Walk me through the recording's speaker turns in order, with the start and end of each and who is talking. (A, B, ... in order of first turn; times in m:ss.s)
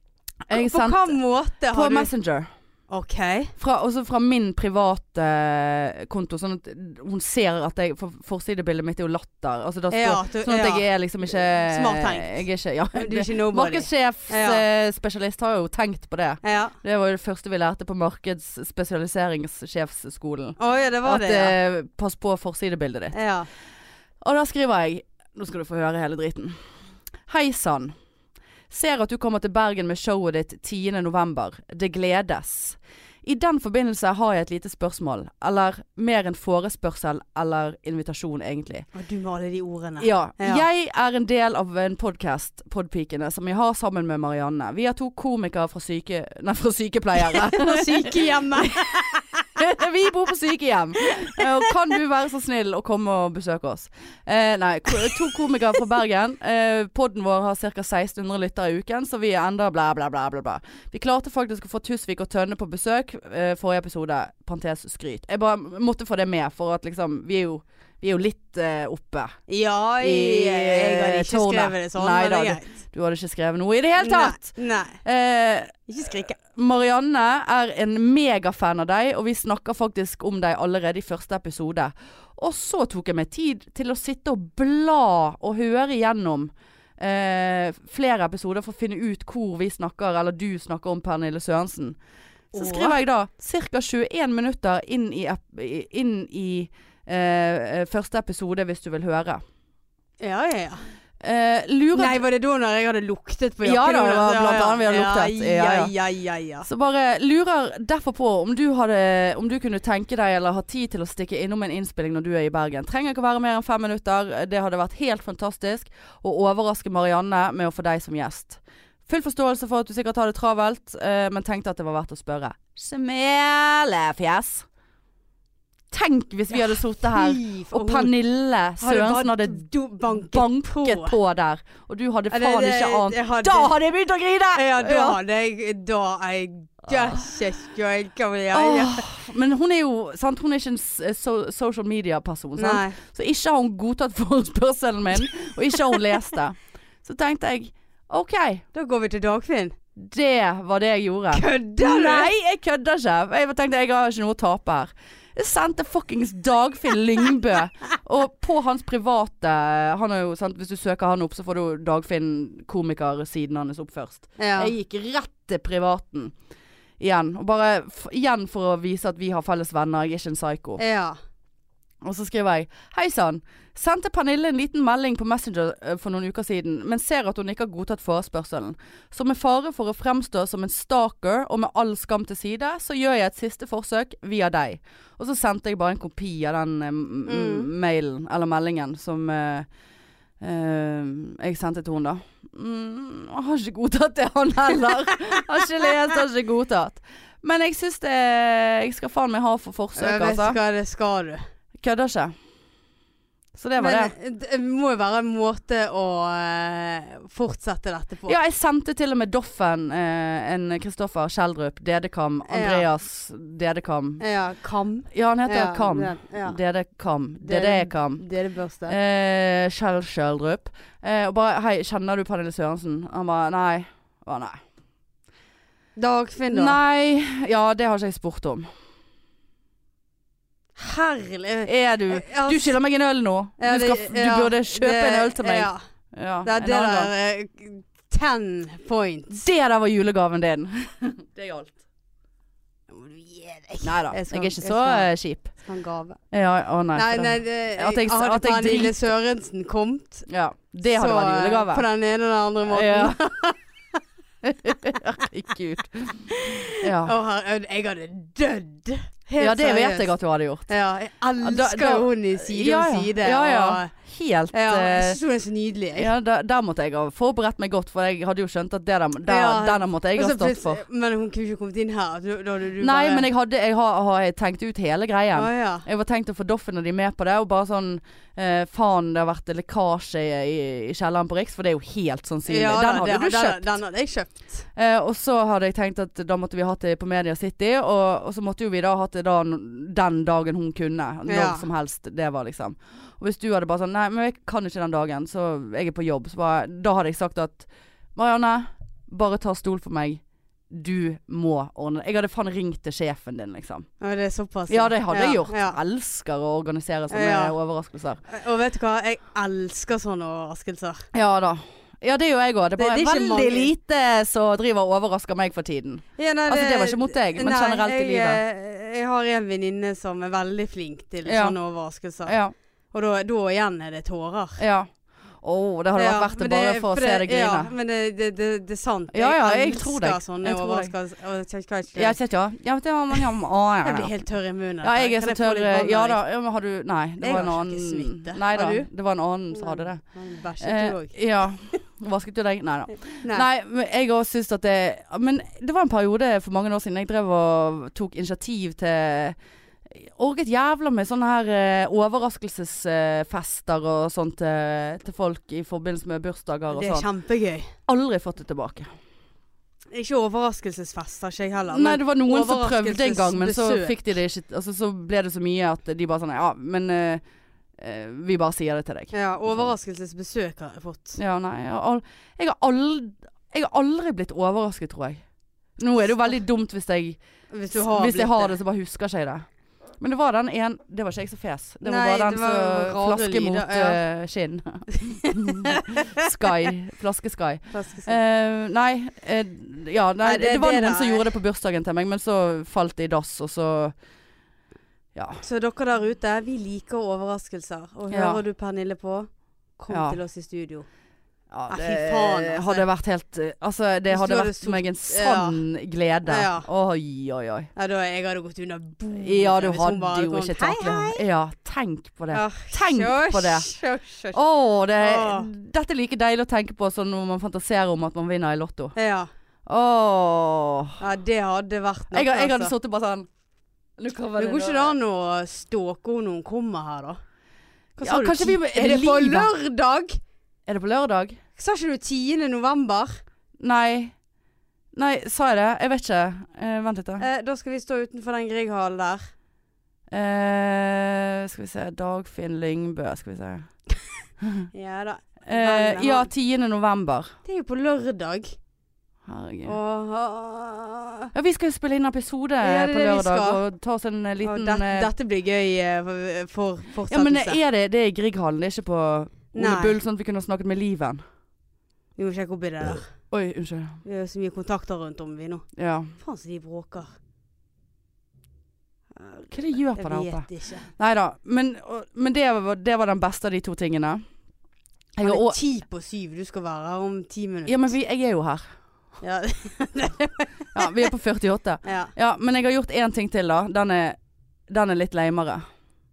0:00.5-0:01.2 A
0:00.5-0:02.1 B
0:01.7-0:02.5 A
0:02.9-0:03.5 B
0:03.6-0:23.2 A
0:09.9-0:14.6 B
0:16.4-0:16.8 B
0:20.6-0:21.6 B
0:23.1-0:23.5 B
0:24.2-0:26.5 A
0:27.3-0:27.9 A
0:28.7-0:38.9 A
0:38.9-0:40.6 B
0:40.0-0:48.7 A
0:47.2-0:49.5 B
0:49.5-1:09.3 A
0:51.0-0:51.7 B
1:09.5-1:12.8 B
1:10.0-1:32.0 A
1:14.0-1:15.0 B
1:15.9-1:16.4 B
1:32.5-1:39.4 A
1:32.5-1:33.0 B
1:40.2-1:40.8 B
1:41.2-1:42.2 A
1:41.9-1:46.7 B
1:43.6-1:45.9 A
1:46.6-2:04.6 A
2:05.9-2:15.2 A
2:06.5-2:08.1 B
2:08.8-2:11.2 B
2:12.3-2:13.7 B
2:14.5-2:19.0 B
2:16.9-2:17.2 A
2:18.5-2:28.6 A
2:22.6-2:23.0 B
2:28.7-2:29.8 B
2:30.0-2:46.3 A
2:31.3-2:32.3 B
2:44.4-2:44.7 B
2:47.0-2:50.8 A
2:50.8-2:51.2 B
2:52.0-3:09.7 A
3:07.3-3:07.7 B
3:10.4-3:20.6 A
3:20.0-3:21.4 B
3:21.8-3:22.3 A
3:23.5-3:24.1 A
3:23.8-3:28.4 B
3:28.3-3:34.2 A
3:32.5-3:32.8 B
3:34.2-3:36.6 B
3:35.1-3:38.2 A
3:37.4-3:39.0 B
3:38.8-3:44.6 A
3:46.0-3:46.8 B
3:46.5-3:48.7 A
3:50.8-3:52.8 B
3:51.6-3:57.1 A
3:53.6-3:55.8 B
3:56.4-3:59.4 B
3:59.3-4:01.8 A
4:02.9-4:05.1 B
4:03.8-4:05.5 A
4:05.6-4:06.2 B
4:06.3-4:09.0 A
4:06.9-4:10.2 B
4:10.3-4:11.8 A
4:10.9-4:14.0 B
4:12.7-4:13.2 A
4:14.4-4:17.1 A
4:16.3-4:20.1 B
4:19.4-4:20.7 A
4:20.7-4:23.9 B
4:21.4-4:25.2 A
4:24.5-4:26.1 B
4:26.0-4:30.8 A
4:29.2-4:33.3 B
4:32.8-4:43.7 A
4:35.3-4:35.8 B
4:42.4-4:44.6 B
4:44.7-5:03.9 A
4:51.3-4:51.6 B
5:04.0-5:05.8 B
5:04.7-5:08.2 A
5:07.1-5:07.5 B
5:08.3-5:11.1 B
5:11.1-5:18.4 A
5:12.8-5:13.7 B
5:16.2-5:22.4 B
5:21.2-5:21.6 A
5:22.2-5:22.5 A
5:22.9-5:24.6 B
5:24.6-5:24.9 A
5:25.4-5:27.7 A
5:26.0-5:32.2 B
5:29.1-5:30.9 A
5:32.0-5:34.1 A
5:33.8-5:36.2 B
5:34.8-5:40.0 A
5:37.2-5:38.9 B
5:39.5-5:41.1 B
5:40.6-5:49.4 A
5:43.2-5:43.5 B
5:49.9-5:57.0 A
5:56.7-5:57.7 B
5:57.9-5:58.9 A
5:59.9-6:04.0 B
6:01.7-6:07.2 A
6:07.8-6:09.7 A
6:09.1-6:11.2 B
6:11.2-6:15.2 A
6:15.8-6:17.2 A
6:17.5-6:18.6 B
6:17.7-6:19.4 A
6:20.0-6:33.9 A
6:21.8-6:24.0 B
6:24.9-6:26.5 B
6:27.7-6:28.2 B
6:30.2-6:31.4 B
6:35.1-6:35.4 A
6:35.4-6:40.9 B
6:38.1-6:38.4 A
6:39.9-6:40.2 A
6:41.5-6:47.7 A
6:41.7-6:42.8 B
6:44.1-6:45.6 B
6:46.2-6:46.7 B
6:47.8-6:51.2 B
6:49.2-6:53.7 A
6:52.3-6:54.4 B
6:54.3-6:58.9 A
6:55.0-6:55.5 B
6:58.9-6:59.3 B
6:59.6-7:01.0 A
7:01.0-7:02.7 B
7:02.1-7:03.3 A
7:04.0-7:04.9 A
7:04.4-7:07.2 B
7:08.0-7:10.2 B
7:08.0-7:09.5 A
7:10.7-7:11.4 A
7:11.6-7:13.2 B
7:13.6-7:14.1 A
7:14.9-7:17.2 A
7:17.2-7:19.2 B
7:20.1-7:23.7 A
7:24.4-7:24.7 A
7:24.7-7:26.3 B
7:25.4-7:27.3 A
7:27.4-7:28.6 B
7:29.2-7:29.8 A
7:29.6-7:31.3 B
7:31.3-7:35.1 A
7:32.6-7:33.6 B
7:34.4-7:37.6 B
7:37.1-7:41.2 A
7:39.5-7:40.0 B
7:42.2-7:43.1 B
7:43.3-7:44.0 A
7:44.0-7:47.1 B
7:45.8-7:46.1 A
7:49.2-7:50.9 B
7:49.5-7:54.2 A
7:55.2-7:55.6 A
7:55.2-7:57.9 B
7:57.6-7:58.6 A
7:59.2-8:01.0 B
8:00.7-8:05.6 A
8:01.8-8:02.1 B